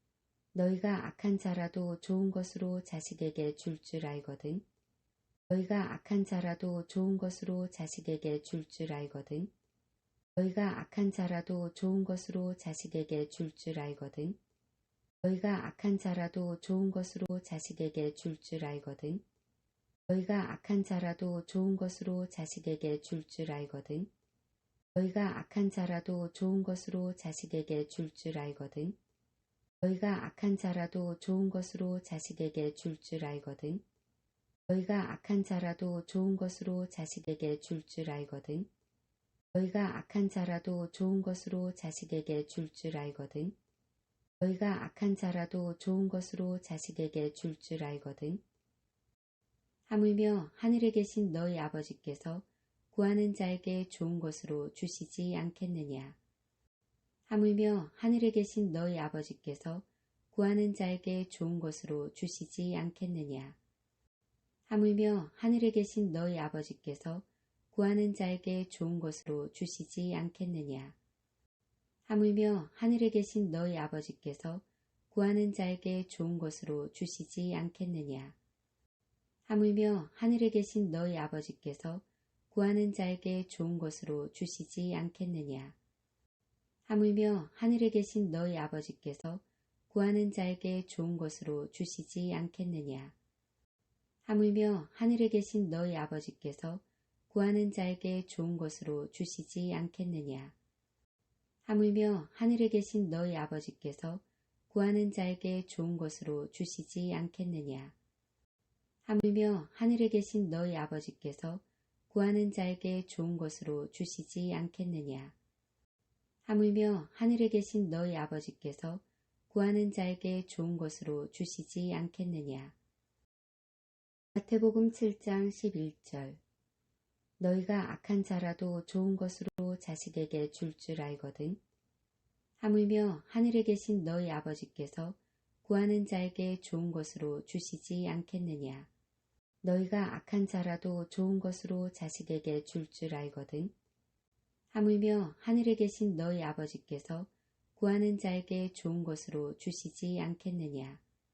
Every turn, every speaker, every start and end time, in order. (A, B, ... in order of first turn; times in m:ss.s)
0:00.5-0:04.6 A
0:05.5-0:09.5 A
0:10.4-0:14.4 A
0:15.2-0:19.2 A
0:20.1-0:24.1 A
0:25.0-0:29.0 A
0:29.8-0:33.8 A
0:34.7-0:38.7 A
0:39.5-0:43.6 A
0:44.4-0:48.4 A
0:49.9-0:56.2 A
0:57.3-1:03.6 A
1:04.7-1:11.0 A
1:12.1-1:18.4 A
1:19.5-1:25.8 A
1:26.9-1:33.2 A
1:34.2-1:40.5 A
1:41.6-1:48.0 A
1:49.0-1:55.3 A
1:56.4-2:02.8 A
2:04.4-2:06.4 A
2:07.4-2:11.6 A
2:12.6-2:18.9 A
2:19.6-2:23.7 A
2:24.7-2:31.0 A